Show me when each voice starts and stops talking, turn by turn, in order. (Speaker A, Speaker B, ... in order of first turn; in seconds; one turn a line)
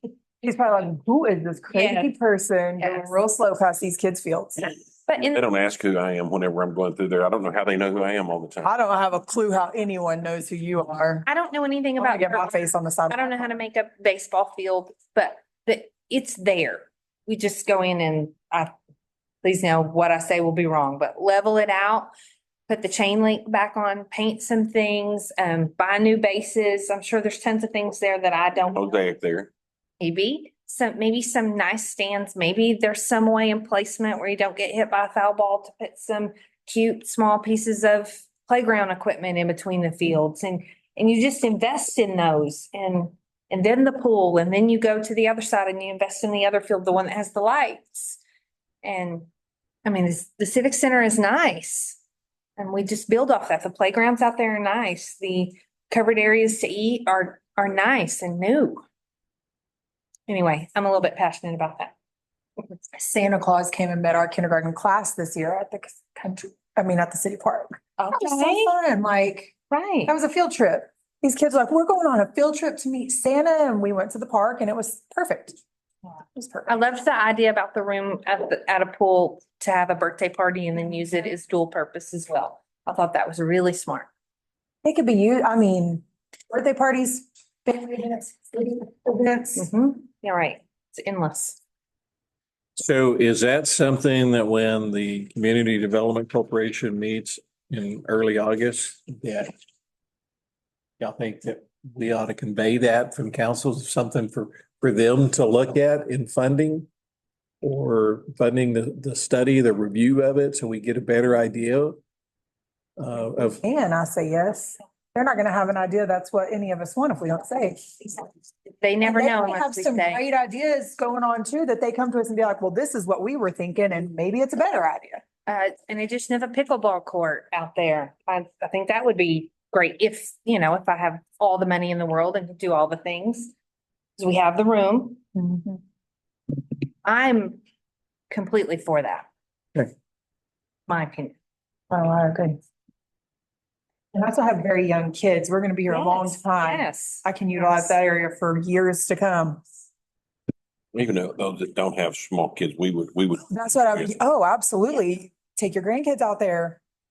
Speaker A: 0.4-4.7
Speaker B: 1.7-2.1
Speaker B: 2.8-3.1
Speaker B: 5.1-5.5
Speaker C: 5.2-8.7
Speaker A: 8.6-11.3
Speaker B: 11.3-18.7
Speaker A: 12.0-13.3
Speaker B: 19.4-22.1
Speaker B: 22.7-28.9
Speaker C: 28.7-29.5
Speaker B: 30.0-48.2
Speaker B: 48.8-49.3
Speaker B: 49.8-52.0
Speaker B: 52.6-58.8
Speaker B: 60.3-61.9
Speaker A: 62.9-69.5
Speaker B: 68.0-68.7
Speaker B: 69.7-70.1
Speaker A: 70.0-75.6
Speaker A: 76.3-76.8
Speaker B: 76.7-84.1
Speaker A: 84.8-89.7
Speaker B: 89.5-91.6
Speaker D: 92.8-99.5
Speaker D: 101.0-106.9
Speaker D: 107.6-112.0
Speaker D: 113.0-113.6
Speaker A: 113.6-118.2
Speaker B: 118.8-120.2
Speaker A: 119.0-125.2
Speaker B: 125.5-133.5
Speaker B: 134.2-135.2
Speaker A: 135.3-135.8
Speaker B: 137.0-137.6
Speaker B: 138.3-139.3
Speaker B: 140.9-141.3
Speaker A: 141.9-142.6
Speaker A: 144.1-149.6
Speaker B: 145.9-147.8
Speaker C: 150.9-154.1
Speaker A: 153.5-156.8